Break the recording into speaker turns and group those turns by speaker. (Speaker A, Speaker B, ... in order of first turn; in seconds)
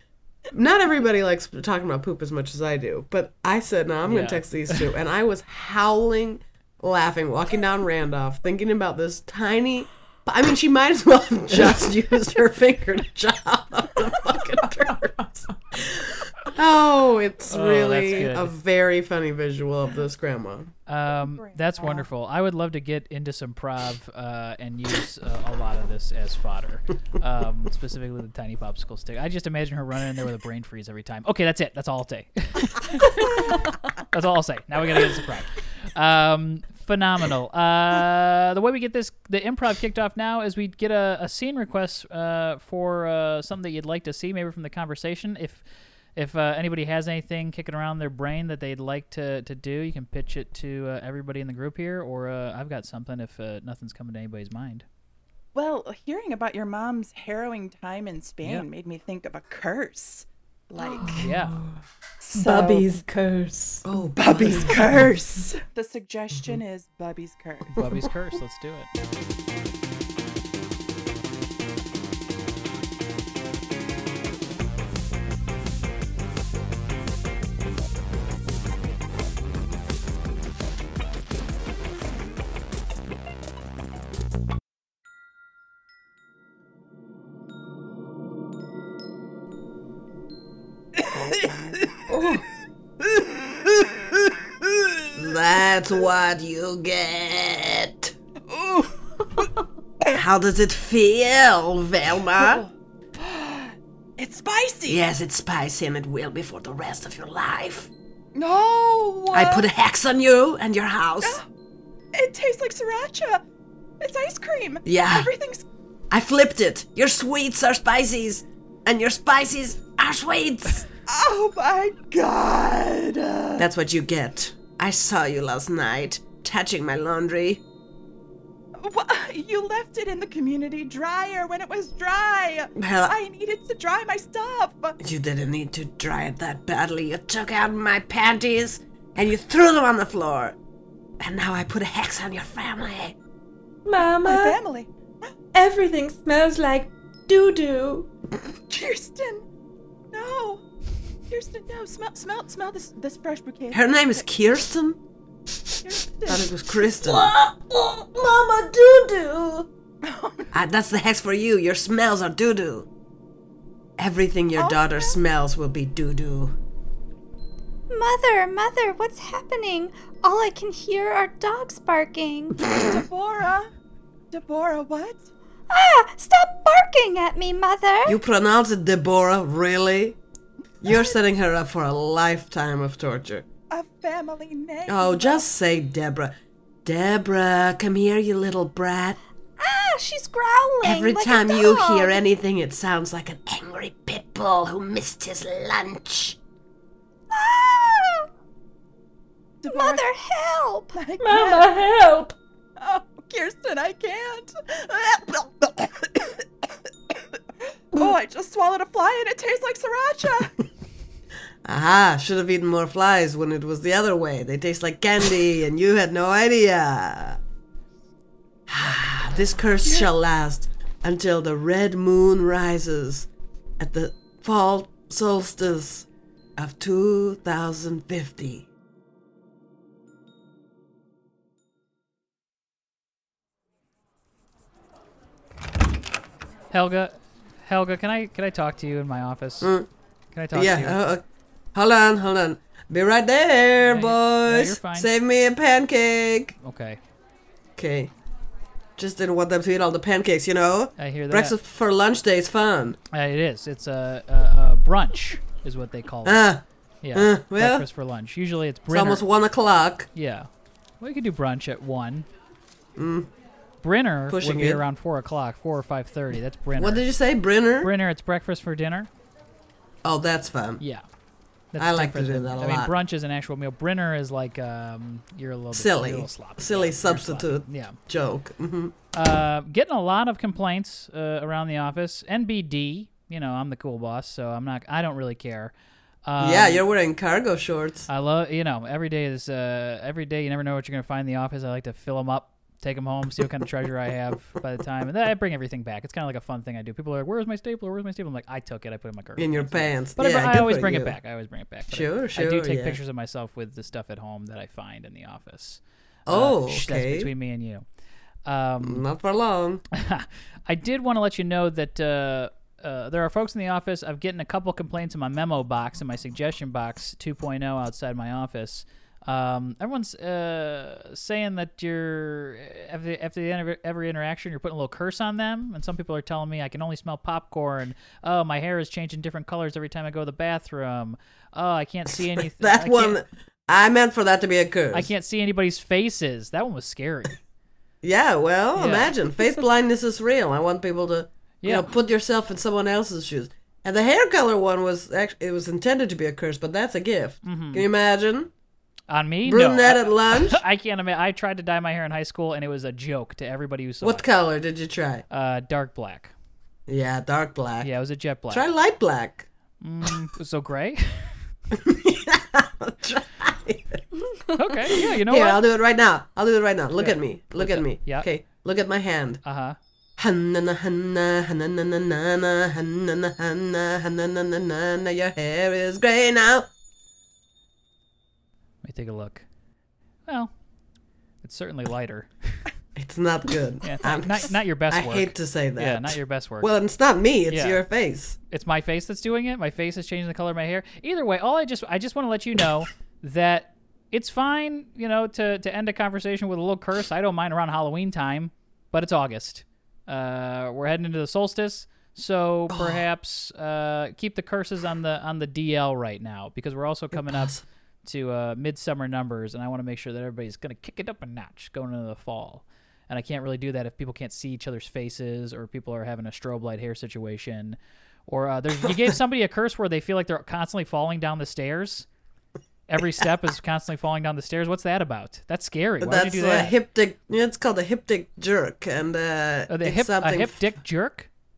Speaker A: 0.5-20.7, 63.9-65.1, 95.2-98.2, 100.1-102.6, 104.9-107.9, 109.3-111.4, 114.8-115.3, 116.1-120.9, 123.6-127.6, 132.8-133.2, 135.0-140.6, 141.2-143.2, 153.7-155.0, 156.3-159.7, 160.5-162.9, 164.0-166.6, 178.1-180.2, 180.8-183.5, 184.9-189.2, 190.8-196.4, 211.7-217.4, 218.7-223.3, 223.8-228.7, 239.6-239.9, 240.5-246.6, 247.8-248.1, 249.0-253.0, 256.2-257.9, 258.9-260.1, 263.0-263.3, 264.3-264.8, 266.8-267.9, 270.0-270.8, 271.8-272.9, 275.7-279.0, 286.4-288.1, 299.4-301.2, 301.9-303.0, 306.3-307.3, 308.8-309.8, 332.1-335.1, 338.0-348.5, 349.4-350.6, 354.0-355.2, 356.9-357.9, 358.5-359.5, 361.7-364.0, 364.9-369.4, 370.2-376.7, 383.0-388.4, 402.7-403.1, 407.1-407.6, 426.0-430.7
Speaker B: 4.1-4.9, 17.5-18.6, 20.9-45.6, 46.2-54.9, 61.2-61.6, 67.8-68.9, 236.7-239.7, 240.3-241.1, 243.8-245.1, 246.6-247.0, 251.0-251.6, 253.1-256.5, 257.0-259.3, 260.1-260.5, 261.0-262.3, 263.8-267.1, 267.8-269.1, 270.8-271.1, 271.7-278.0, 279.1-285.7, 286.3-286.9, 288.1-307.9, 308.4-309.1, 309.9-333.2, 334.9-337.4, 338.8-339.1, 341.6-341.9, 347.4-347.9, 349.1-354.3, 355.3-356.3, 357.8-358.7, 359.8-361.3, 364.6-365.6, 367.0-368.3, 369.4-369.8, 378.8-379.4, 380.3-380.5, 381.4-382.7, 383.8-386.7, 387.5-387.8, 388.5-422.1, 422.9-426.8, 429.7-431.3
Speaker C: 21.1-22.1, 55.5-61.3, 62.2-62.9, 64.2-67.8, 91.1-91.6, 94.7-95.1, 98.5-99.5, 102.3-105.0, 108.3-109.7, 112.1-113.4, 114.0-115.6, 121.1-123.7, 128.8-135.0, 144.2-144.9, 148.7-149.5, 150.1-150.6, 151.3-154.2, 155.8-157.3, 160.0-160.5, 164.6-165.2, 172.7-173.7, 174.3-175.3, 180.9-181.2, 183.7-185.4, 199.6-200.1, 200.9-201.8, 202.8-207.4, 207.9-210.6
Speaker D: 60.8-61.8, 62.3-64.9, 92.1-92.5, 143.8-144.6, 145.5-148.1, 201.2-202.3
Speaker E: 167.9-172.6, 175.7-178.1, 189.6-192.2, 197.3-198.3, 199.7-201.0